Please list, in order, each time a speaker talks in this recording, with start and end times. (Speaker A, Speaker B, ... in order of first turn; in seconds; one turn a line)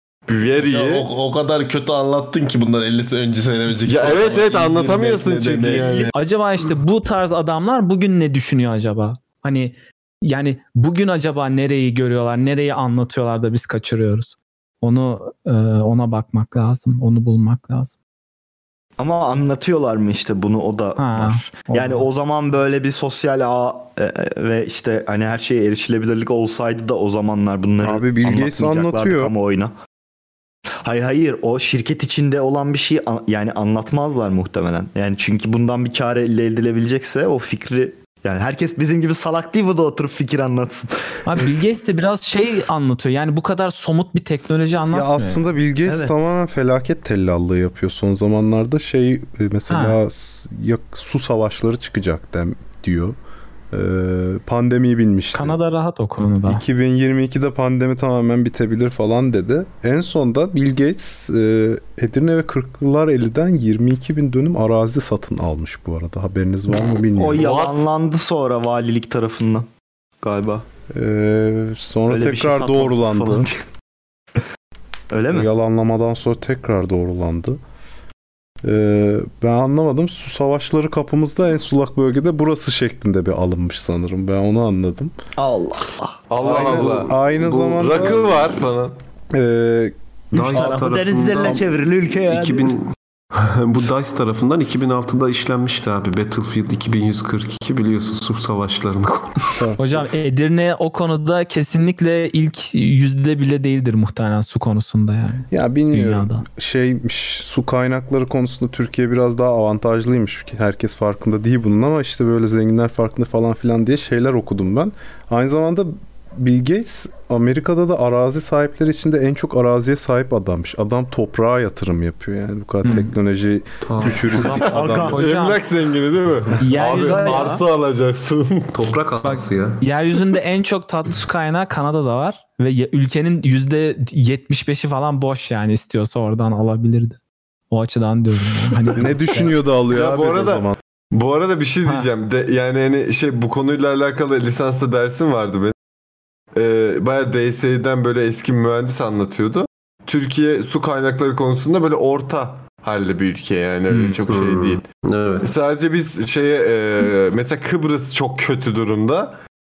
Speaker A: 0.3-1.1
Speaker B: 0.6-6.1
Speaker A: 3.8-6.1
Speaker C: 6.1-17.9
Speaker D: 19.0-29.7
Speaker C: 21.0-22.0
Speaker E: 27.8-29.3
Speaker D: 30.8-40.9
Speaker C: 41.2-45.4
Speaker E: 44.9-53.1
Speaker C: 49.7-50.0
Speaker E: 53.7-55.6
Speaker C: 55.3-56.6
Speaker E: 56.5-67.5
Speaker D: 67.2-69.7
Speaker A: 67.4-67.8
Speaker D: 70.2-70.6
Speaker E: 70.9-73.5
Speaker D: 72.1-73.6
Speaker D: 75.1-75.5
Speaker E: 75.3-77.6
Speaker E: 78.6-85.1
Speaker D: 85.4-86.2
Speaker A: 86.3-87.1
Speaker F: 86.4-88.6
Speaker E: 86.4-88.2
Speaker A: 87.7-88.9
Speaker E: 89.3-90.7
Speaker F: 90.3-99.5
Speaker D: 90.4-92.8
Speaker C: 99.8-106.4
Speaker E: 105.5-125.2
Speaker C: 122.8-123.1
Speaker F: 123.8-124.5
Speaker D: 124.3-125.2
Speaker C: 125.1-125.6
Speaker A: 125.1-128.7
Speaker C: 126.6-127.5
Speaker D: 126.8-127.6
Speaker F: 128.7-129.8
Speaker C: 129.2-137.2
Speaker C: 137.7-139.5
Speaker E: 138.9-140.8
Speaker A: 139.9-145.7
Speaker A: 146.5-154.8
Speaker F: 154.3-155.5
Speaker A: 155.4-159.3